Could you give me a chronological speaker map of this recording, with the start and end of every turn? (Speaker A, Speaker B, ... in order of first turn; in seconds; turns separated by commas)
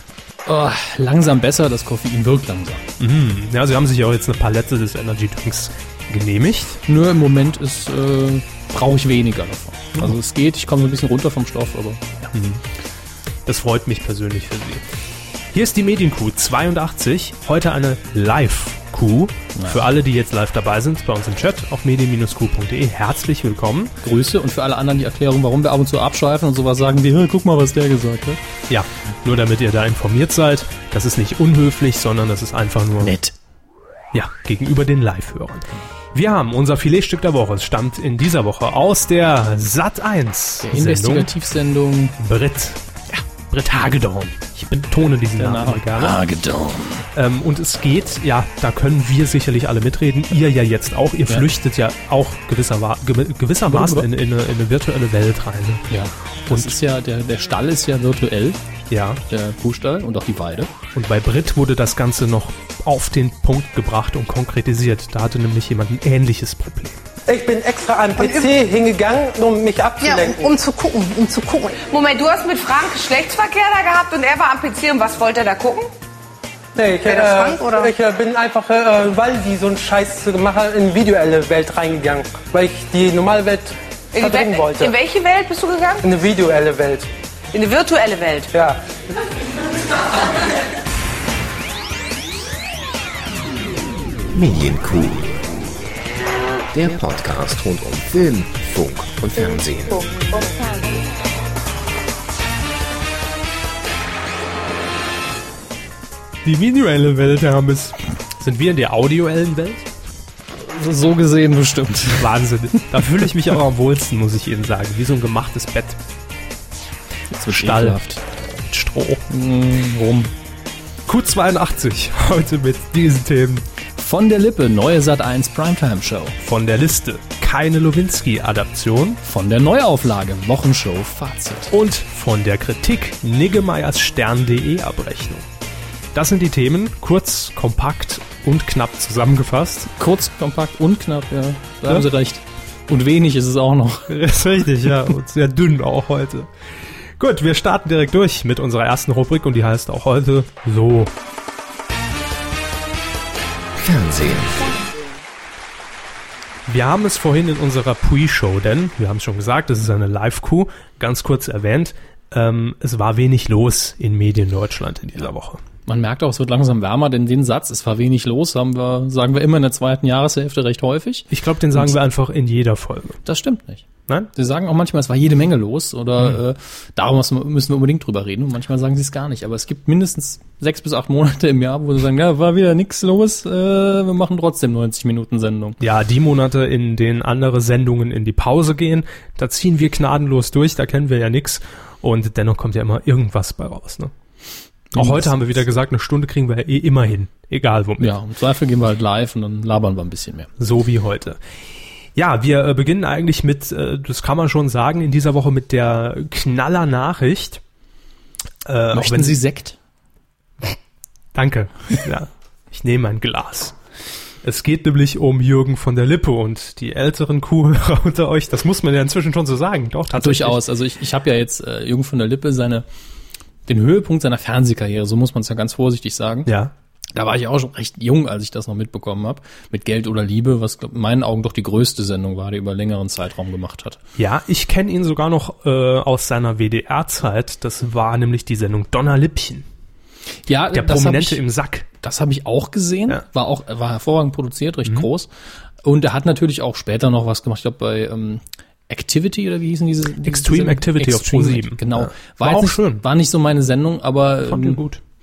Speaker A: 0.5-2.8, Speaker B: 3.0-6.8, Speaker A: 6.9-12.3, Speaker B: 12.3-12.6, Speaker B: 13.4-14.8, Speaker B: 15.5-23.9, Speaker A: 19.5-19.9, Speaker A: 24.0-28.4, Speaker B: 28.7-33.1, Speaker A: 33.0-33.3, Speaker B: 34.1-41.3, Speaker A: 40.6-42.2, Speaker B: 42.2-46.2, Speaker A: 45.4-47.1, Speaker B: 47.1-55.8, Speaker A: 53.6-54.1, Speaker A: 55.9-58.6, Speaker B: 56.5-56.7, Speaker B: 58.9-59.2, Speaker A: 59.3-60.7, Speaker B: 60.9-67.0, Speaker C: 67.3-70.5, Speaker D: 68.2-68.5, Speaker D: 70.0-71.8, Speaker E: 71.9-75.9, Speaker C: 76.7-84.9, Speaker D: 77.0-77.9, Speaker E: 84.1-86.0, Speaker C: 86.0-87.1, Speaker E: 87.5-88.5, Speaker C: 88.5-88.8, Speaker F: 94.3-95.6, Speaker F: 96.7-100.5, Speaker B: 106.4-109.9, Speaker A: 110.5-112.3, Speaker B: 112.2-116.0, Speaker A: 112.9-113.3, Speaker A: 117.3-118.2, Speaker B: 117.4-118.0, Speaker B: 118.7-119.2, Speaker A: 119.3-120.3, Speaker B: 121.1-123.6, Speaker A: 124.0-126.3, Speaker B: 126.4-129.2, Speaker A: 129.2-131.7, Speaker B: 131.7-135.5, Speaker B: 136.1-139.9, Speaker A: 139.9-144.2, Speaker B: 144.1-146.5, Speaker B: 147.2-151.1, Speaker F: 153.8-154.8, Speaker B: 156.7-165.6, Speaker A: 165.8-172.0, Speaker B: 171.3-173.2, Speaker A: 173.2-185.8, Speaker B: 185.8-194.1, Speaker A: 194.9-195.3, Speaker B: 194.9-198.1, Speaker A: 198.0-200.5, Speaker B: 200.6-201.4, Speaker B: 202.2-207.6, Speaker B: 208.6-209.4, Speaker A: 208.9-209.8, Speaker B: 211.3-213.8, Speaker B: 214.4-220.6, Speaker A: 220.1-222.8, Speaker A: 223.7-226.5, Speaker B: 226.4-226.7, Speaker A: 227.1-234.0, Speaker B: 234.2-239.7, Speaker A: 240.5-245.3, Speaker B: 240.7-241.8, Speaker A: 245.8-254.8, Speaker B: 250.2-253.0, Speaker B: 254.5-255.0